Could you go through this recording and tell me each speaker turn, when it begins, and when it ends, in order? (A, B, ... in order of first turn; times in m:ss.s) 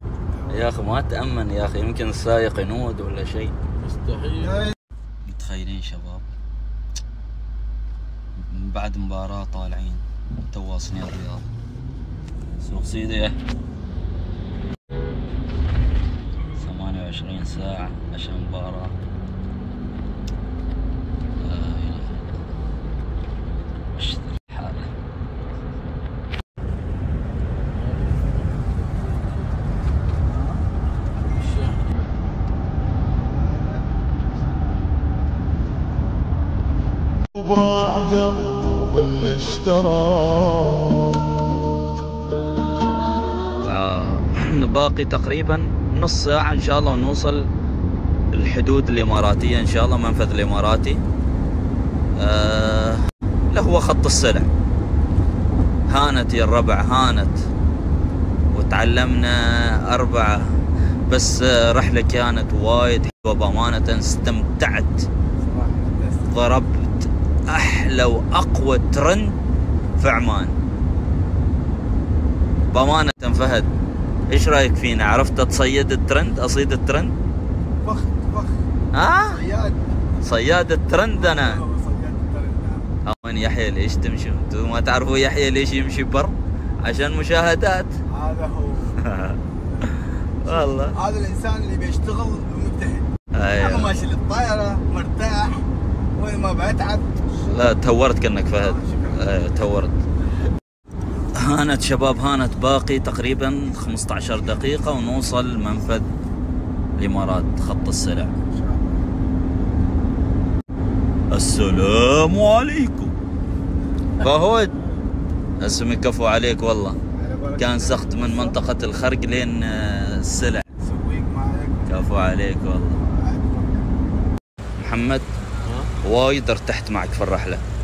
0:00.3-0:00.7 A
0:00.5-0:03.5 B
0:03.8-0:04.7 C
0:04.4-0:04.8 A
0:05.2-0:06.3 B
0:08.4-0:11.4 B
0:12.6-0:13.4 B
0:16.6-0:19.0 B
0:21.4-0:22.3 B
0:23.9-0:24.9 B
0:27.8-0:29.5 C
0:30.3-0:30.6 A
0:31.2-0:32.0 C
0:33.3-0:33.8 A
0:37.8-0:38.4 B
0:39.1-0:40.0 B
0:43.6-0:47.5 B
0:48.3-0:51.0 B
0:52.2-0:54.5 B
0:55.9-0:57.4 B
0:58.5-1:05.1 B
1:05.4-1:06.3 A
1:06.3-1:09.4 B
1:10.0-1:10.6 B
1:12.7-1:13.7 B
1:14.3-1:17.1 B
1:17.8-1:18.7 A
1:18.9-1:19.4 B
1:19.2-1:19.9 A
1:20.2-1:21.6 B
1:21.2-1:22.9 A
1:23.0-1:27.9 B
1:28.1-1:29.0 A
1:29.0-1:29.4 B
1:30.4-1:37.7 A
1:30.4-1:31.0 B
1:33.4-1:33.9 B
1:37.5-1:40.0 B
1:38.5-1:39.5 A
1:41.3-1:46.1 B
1:47.0-1:48.3 B
1:48.4-1:49.1 A
1:51.3-1:53.1 B
1:54.2-1:54.8 B
1:55.6-1:57.0 B
1:57.1-1:58.6 A
1:57.6-2:00.7 B
2:00.8-2:02.1 A
2:01.9-2:03.0 B
2:03.0-2:03.9 A
2:04.8-2:05.3 B
2:05.6-2:05.9 C
2:06.0-2:07.6 B